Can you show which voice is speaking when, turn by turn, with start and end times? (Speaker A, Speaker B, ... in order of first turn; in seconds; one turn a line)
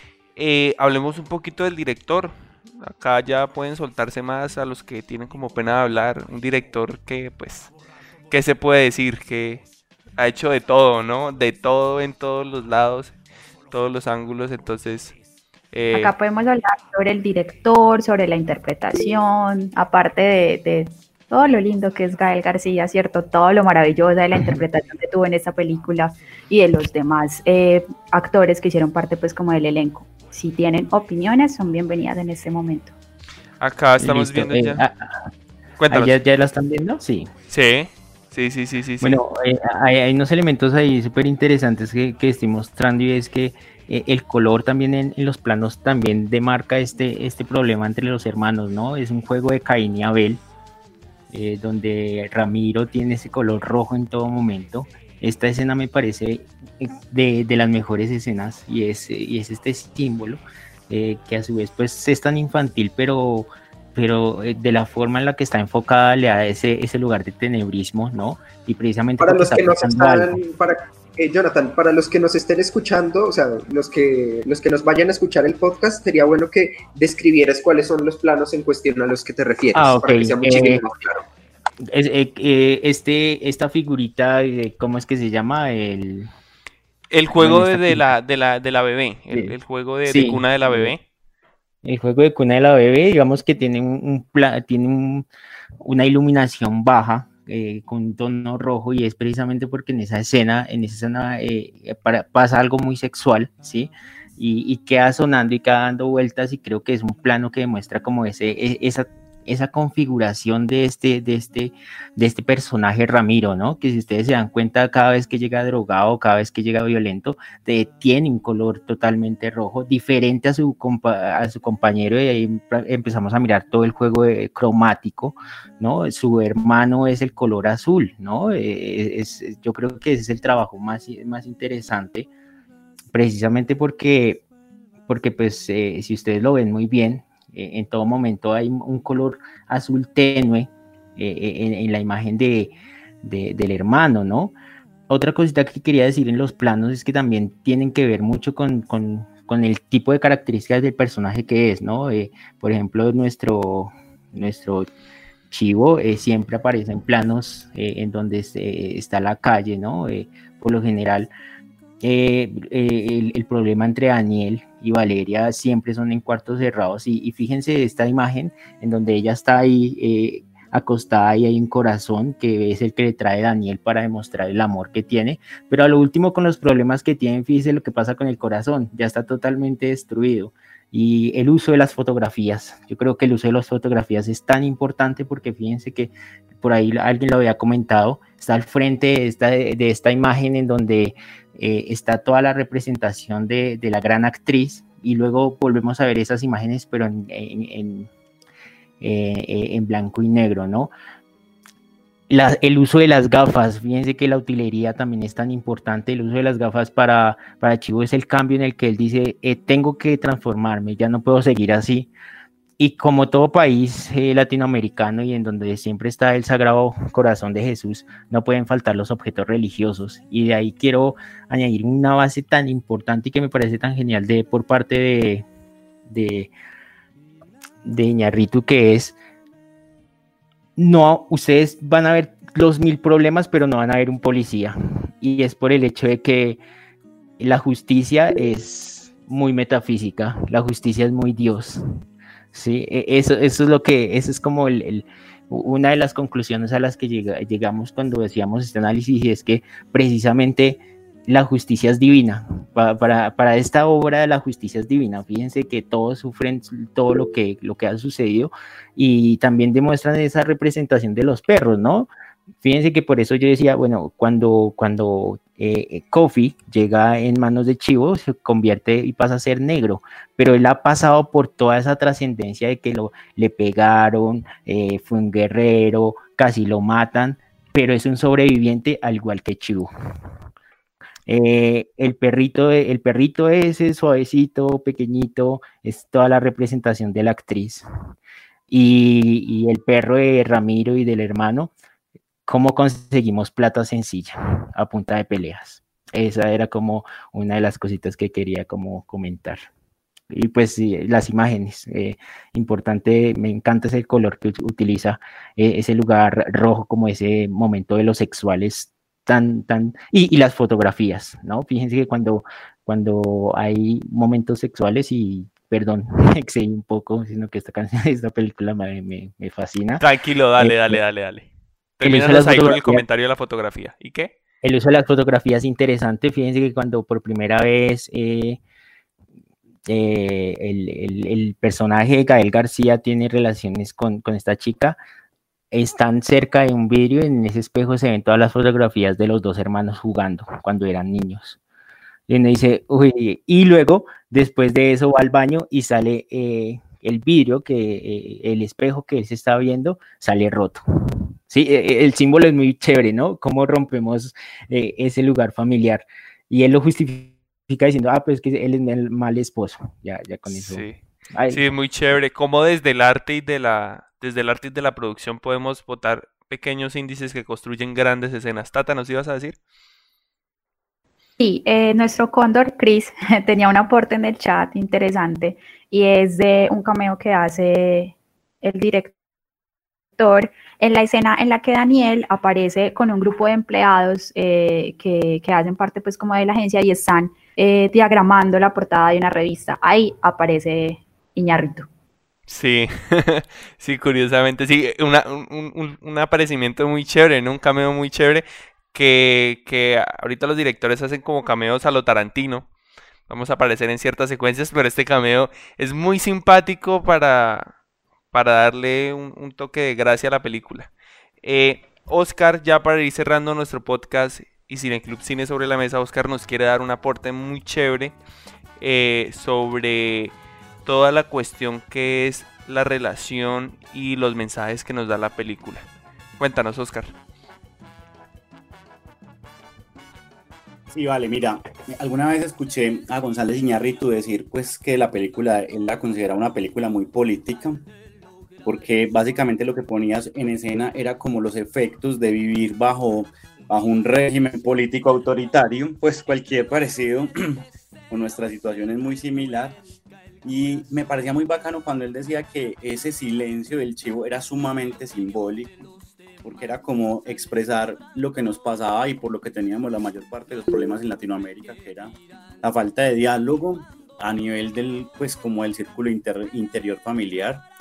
Speaker A: 0.3-7.7
Speaker A: 8.3-9.7
Speaker A: 10.2-13.1
Speaker A: 13.7-15.2
Speaker A: 15.7-16.1
Speaker B: 15.9-32.9
Speaker A: 33.6-34.8
Speaker C: 34.0-35.3
Speaker A: 35.8-36.1
Speaker C: 35.9-37.3
Speaker A: 37.5-39.2
Speaker C: 39.0-50.4
Speaker C: 51.3-70.4
Speaker D: 69.2-81.2
Speaker C: 79.7-80.8
Speaker C: 81.8-86.3
Speaker A: 87.1-91.0
Speaker C: 87.4-88.1
Speaker C: 90.0-90.9
Speaker C: 91.8-95.3
Speaker C: 95.8-132.3
Speaker C: 133.1-134.4
Speaker C: 135.1-144.5
Speaker C: 145.1-154.9
Speaker C: 155.5-161.3
Speaker C: 162.0-198.1
Speaker C: 199.0-200.9
Speaker C: 202.3-212.1
Speaker C: 212.8-225.4
Speaker C: 226.1-226.5
Speaker C: 227.8-229.2
Speaker C: 230.8-236.6
Speaker C: 237.4-241.8
Speaker C: 242.5-262.1
Speaker C: 262.6-279.9
Speaker C: 281.3-287.8
Speaker C: 288.7-291.7
Speaker C: 292.4-299.6
Speaker C: 300.3-320.0
Speaker A: 320.0-321.5
Speaker C: 320.6-321.0
Speaker A: 322.0-324.3
Speaker C: 322.0-323.0
Speaker C: 324.6-328.6
Speaker C: 329.9-335.0
Speaker C: 335.7-341.6
Speaker C: 342.3-350.8
Speaker C: 351.5-361.6
Speaker A: 360.5-360.9
Speaker A: 361.5-369.6
Speaker B: 371.4-379.1
Speaker B: 380.2-391.9
Speaker A: 392.5-402.6
Speaker A: 403.3-407.7
Speaker A: 408.3-410.9
Speaker A: 411.4-418.1
Speaker A: 418.8-420.3
Speaker A: 420.9-425.8
Speaker A: 426.4-427.1
Speaker E: 430.9-437.9
Speaker E: 438.6-449.8
Speaker E: 450.4-455.9
Speaker E: 456.4-467.6